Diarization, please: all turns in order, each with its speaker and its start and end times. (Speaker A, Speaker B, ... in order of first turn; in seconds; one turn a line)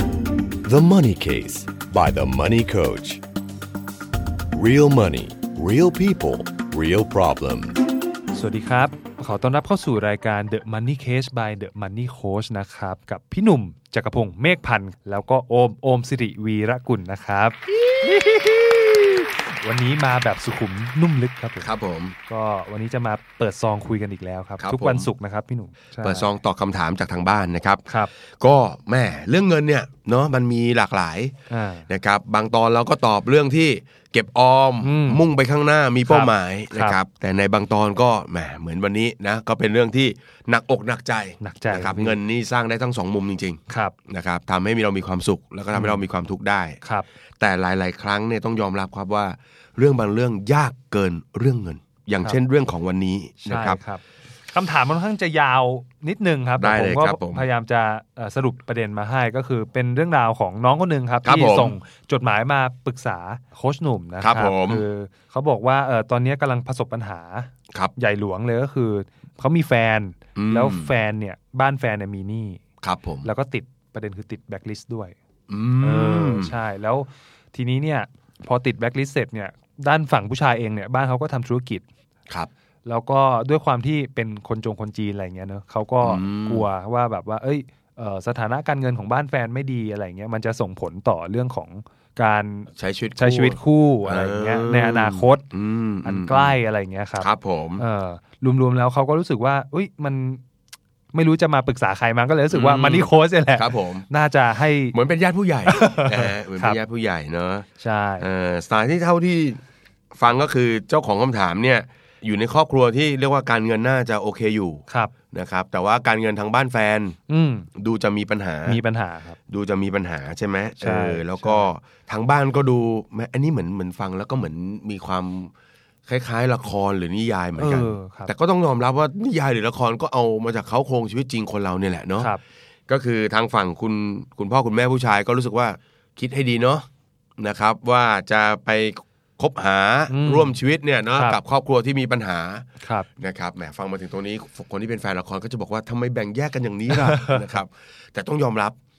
Speaker A: 0.6-3.2
Speaker A: 4.5-7.8
Speaker B: 8.3-21.7
Speaker C: 18.1-18.5
Speaker C: 21.6-22.1
Speaker B: 22.3-26.3
Speaker C: 24.6-25.1
Speaker C: 26.0-27.9
Speaker C: 28.4-31.3
Speaker B: 31.5-31.9
Speaker C: 31.9-46.8
Speaker B: 34.8-35.2
Speaker B: 36.0-37.0
Speaker B: 41.4-42.2
Speaker B: 43.7-43.9
Speaker B: 45.7-46.0
Speaker B: 46.8-47.1
Speaker C: 47.4-53.8
Speaker B: 53.5-72.6
Speaker C: 56.6-57.5
Speaker C: 61.2-61.7
Speaker C: 64.2-64.8
Speaker C: 70.3-70.9
Speaker C: 72.8-73.3
Speaker B: 73.2-75.1
Speaker C: 75.5-76.5
Speaker B: 75.8-81.8
Speaker B: 82.8-95.5
Speaker C: 86.0-86.7
Speaker C: 92.8-96.6
Speaker B: 96.0-100.4
Speaker C: 97.2-97.8
Speaker B: 101.1-104.9
Speaker C: 102.5-104.0
Speaker C: 104.9-107.7
Speaker B: 105.6-106.8
Speaker B: 107.8-108.3
Speaker C: 108.2-109.6
Speaker C: 110.2-117.2
Speaker B: 117.3-117.7
Speaker C: 117.7-118.8
Speaker B: 118.7-119.4
Speaker C: 119.5-125.5
Speaker B: 120.8-121.7
Speaker C: 126.1-132.3
Speaker B: 127.6-128.3
Speaker C: 132.9-136.8
Speaker C: 137.4-142.7
Speaker B: 140.1-140.6
Speaker B: 142.8-143.1
Speaker C: 143.2-148.7
Speaker B: 146.9-147.4